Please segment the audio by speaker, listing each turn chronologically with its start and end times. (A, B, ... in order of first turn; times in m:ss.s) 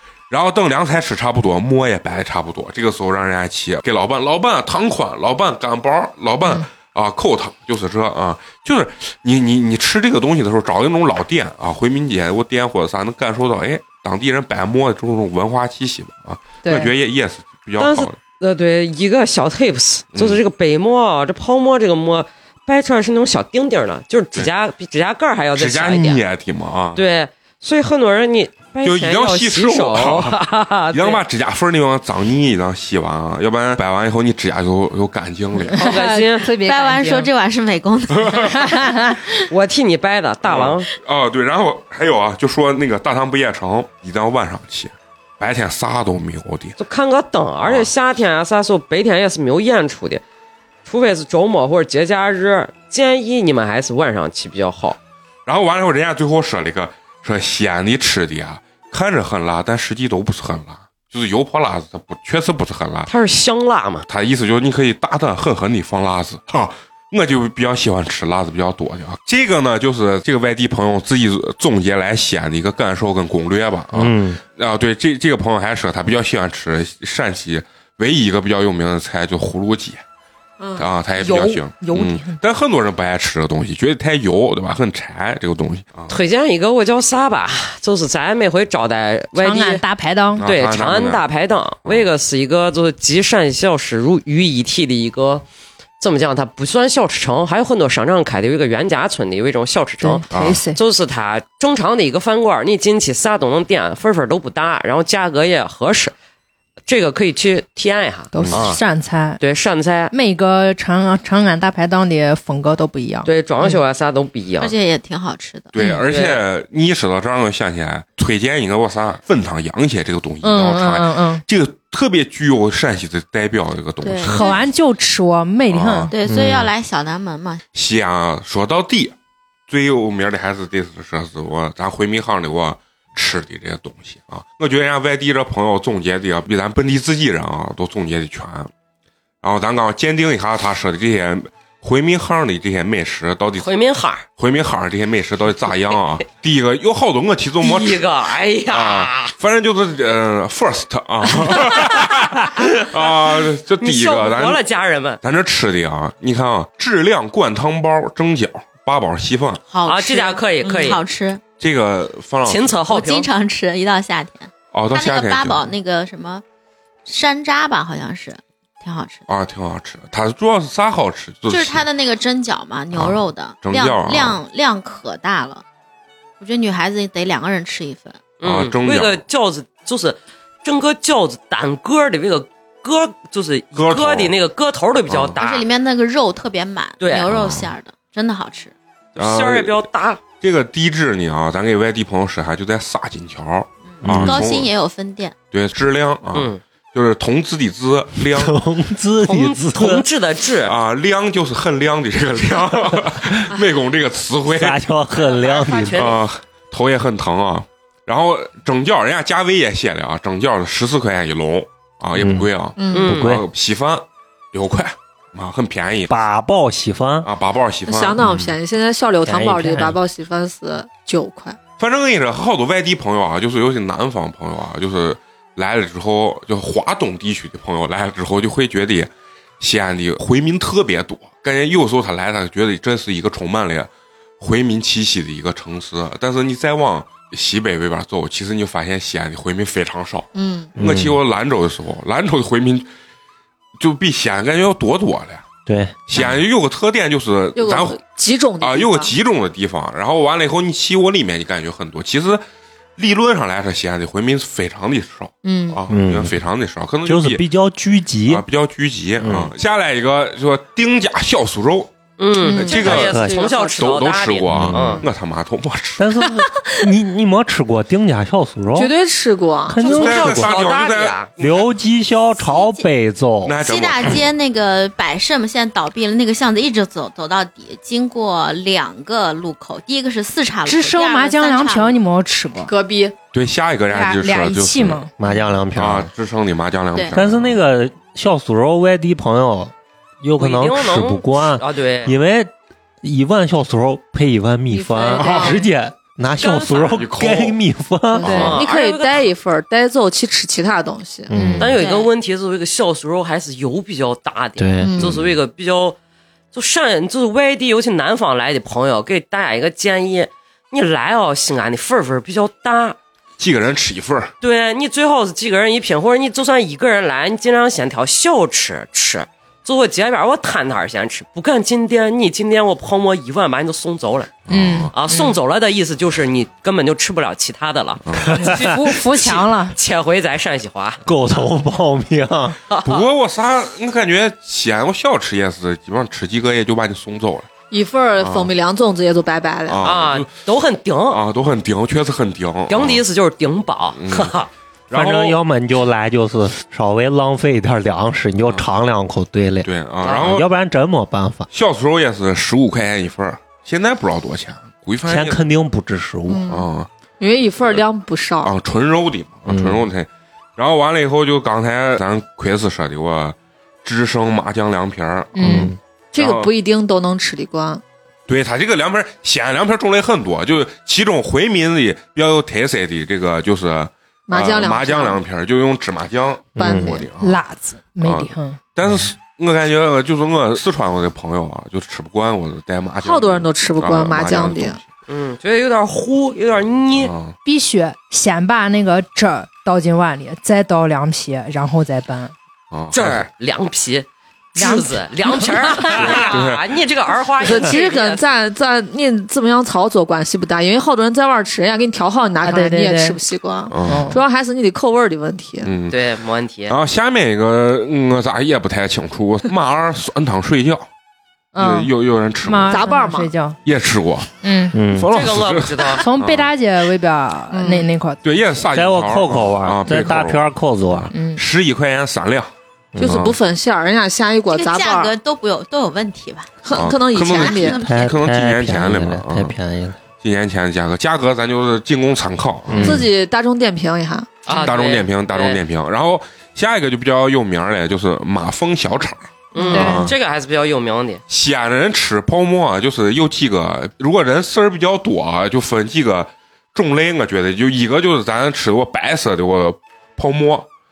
0:00.3-0:18.1 A
0:16.6-0:16.9 B
0:17.8-0:26.2 C
0:20.1-0:20.4 A
0:25.5-0:27.0 A
0:26.9-0:31.2 C
0:28.8-0:30.4 A
0:30.9-0:35.8 A
0:35.7-0:37.3 B
0:35.7-0:36.5 C
0:36.6-0:38.5 D
0:38.1-0:38.7 A
0:38.6-0:39.3 B
0:39.5-0:40.9 C
0:40.4-0:46.8 A
0:46.8-0:50.2 C
0:47.6-0:47.9 A
0:50.8-0:55.0 C
0:55.4-1:03.1 A
1:03.1-1:04.1 C
1:04.1-1:20.0 A
1:13.9-1:14.4 E
1:20.8-1:26.1 A
1:21.2-1:22.4 B
1:26.1-1:29.8 C
1:29.4-1:30.4 B
1:30.4-1:31.2 A
1:30.4-1:35.4 C
1:36.0-1:46.1 C
1:40.0-1:40.8 B
1:40.3-1:40.6 A
1:46.9-1:48.8 C
1:48.3-1:49.4 B
1:48.4-1:48.7 A
1:49.4-1:50.1 C
1:50.1-1:53.8 B
1:53.2-1:54.7 C
1:54.6-1:55.7 D
1:55.7-2:04.5 A
1:55.8-1:56.0 B
1:56.1-1:56.4 C
2:00.4-2:01.4 B
2:04.0-2:04.6 D
2:04.2-2:06.1 B
2:05.7-2:06.1 A
2:06.1-2:07.6 D
2:06.2-2:06.7 E
2:07.7-2:09.1 A
2:09.7-2:18.7 A
2:19.4-2:23.7 A
2:23.6-2:24.2 C
2:24.4-2:28.0 A
2:27.6-2:29.3 C
2:28.7-2:34.6 A
2:31.4-2:35.2 C
2:35.2-2:39.6 A
2:39.7-2:41.4 D
2:39.8-2:41.0 C
2:41.6-2:42.8 A
2:42.4-2:43.3 C
2:42.9-2:46.4 D
2:44.7-2:45.7 A
2:47.0-2:49.2 D
2:49.3-2:51.8 A
2:51.5-2:55.6 D
2:52.9-2:54.4 A
2:56.4-2:58.2 D
2:58.4-3:05.6 C
2:58.4-2:59.2 A
3:03.8-3:04.3 A
3:05.1-3:05.4 A
3:05.4-3:08.7 D
3:07.0-3:07.3 C
3:07.3-3:07.7 A
3:09.2-3:10.2 C
3:09.2-3:09.9 A
3:10.4-3:14.7 A
3:13.9-3:15.3 D
3:14.0-3:14.4 E
3:15.5-3:18.6 A
3:16.3-3:16.6 C
3:18.2-3:20.0 E
3:19.2-3:20.7 C
3:20.6-3:24.8 A
3:24.5-3:26.1 E
3:25.1-3:26.2 C
3:25.9-3:36.1 A
3:32.2-3:32.5 E
3:32.8-3:33.1 F
3:32.9-3:33.3 C
3:33.0-3:33.5 E
3:36.1-3:37.3 E
3:37.2-3:38.2 A
3:37.9-3:41.6 F
3:38.2-3:38.5 E
3:39.2-3:40.0 E
3:41.8-4:02.9 A
4:00.3-4:00.7 F
4:00.8-4:01.2 E
4:03.8-4:05.5 A
4:05.6-4:06.3 E
4:06.1-4:08.0 A
4:07.5-4:09.1 F
4:08.6-4:12.4 A
4:13.0-4:17.4 A
4:15.4-4:15.8 F
4:15.9-4:16.4 E
4:17.0-4:18.4 E
4:18.3-4:21.9 A
4:19.2-4:19.5 E
4:22.2-4:25.0 C
4:22.4-4:23.7 F
4:22.6-4:23.1 A
4:22.9-4:23.4 E
4:23.7-4:26.2 A
4:24.5-4:25.0 E
4:26.0-4:28.9 E
4:28.7-4:29.8 F
4:29.7-4:30.6 E
4:29.8-4:31.3 C
4:29.8-4:31.7 A
4:31.4-4:33.6 E
4:32.3-4:32.9 D
4:33.4-4:34.3 A
4:33.6-4:42.0 D
4:40.6-4:42.7 B
4:42.6-4:43.1 F
4:43.3-4:45.0 A
4:43.9-4:45.1 B
4:45.2-4:46.1 E
4:45.7-4:47.6 A
4:47.1-4:58.4 E
4:50.4-4:52.1 C
4:54.7-4:55.6 F
4:55.2-4:55.6 A
4:56.4-4:57.0 C
4:56.9-4:57.6 A
4:58.1-5:01.5 F
4:58.2-4:59.3 C
4:58.3-4:58.6 A
5:01.3-5:01.8 E
5:01.6-5:06.0 C
5:01.8-5:02.1 D
5:04.6-5:05.0 E
5:04.8-5:05.1 F
5:05.0-5:05.3 A
5:06.5-5:13.0 C
5:13.4-5:14.3 A
5:14.4-5:24.4 C
5:24.5-5:24.9 A
5:24.5-5:25.4 B
5:24.9-5:31.0 C
5:28.1-5:28.4 A
5:28.3-5:29.8 B
5:31.0-5:32.6 E
5:32.7-5:33.1 C
5:32.8-5:37.5 A
5:37.7-5:39.9 F
5:38.2-5:38.5 A
5:39.7-5:40.3 A
5:39.8-5:41.2 C
5:41.1-5:43.0 A
5:42.7-5:44.5 C
5:44.0-5:44.3 A
5:44.9-5:45.4 A
5:44.9-5:51.5 E
5:49.6-5:50.5 A
5:50.0-5:50.3 C
5:51.5-5:55.4 A
5:55.0-5:56.4 E
5:56.3-5:56.7 F
5:56.5-5:56.9 A
5:57.2-5:58.5 F
5:58.4-6:06.5 A
5:59.5-5:59.9 E
6:05.4-6:05.7 B
6:05.4-6:05.8 E
6:06.1-6:07.8 F
6:08.3-6:17.4 A
6:14.3-6:15.2 F
6:16.6-6:17.0 E
6:16.6-6:17.1 F
6:17.2-6:18.6 B
6:18.0-6:24.8 A
6:23.0-6:24.8 F
6:25.1-6:27.1 C
6:26.9-6:27.4 A
6:27.4-6:32.3 B
6:32.7-6:33.2 A
6:32.9-6:38.3 C
6:34.6-6:36.3 B
6:36.0-6:36.6 A
6:37.4-6:45.7 F
6:42.4-6:43.2 B
6:43.7-6:44.1 A
6:43.8-6:44.2 B
6:45.6-6:46.0 A
6:45.9-6:46.8 C
6:46.7-6:50.9 A
6:51.5-6:53.6 B
6:51.6-6:52.9 A
6:52.7-6:53.3 F
6:53.6-6:56.5 A
6:54.4-6:54.8 B
6:54.7-6:55.1 E
6:55.1-6:56.0 C
6:56.0-6:58.2 B
6:57.5-6:57.9 F
6:58.2-7:00.4 A
6:58.7-7:01.1 E
7:01.0-7:03.4 A
7:01.1-7:01.4 B
7:02.9-7:03.2 E
7:03.0-7:05.1 F
7:04.5-7:08.1 D
7:06.6-7:07.8 F
7:06.7-7:09.6 A
7:07.8-7:10.0 E
7:10.2-7:13.0 A
7:12.7-7:13.1 E
7:12.8-7:14.4 F
7:14.4-7:15.6 C
7:14.6-7:20.1 A
7:19.5-7:21.2 C
7:19.5-7:20.1 B
7:21.3-7:30.7 A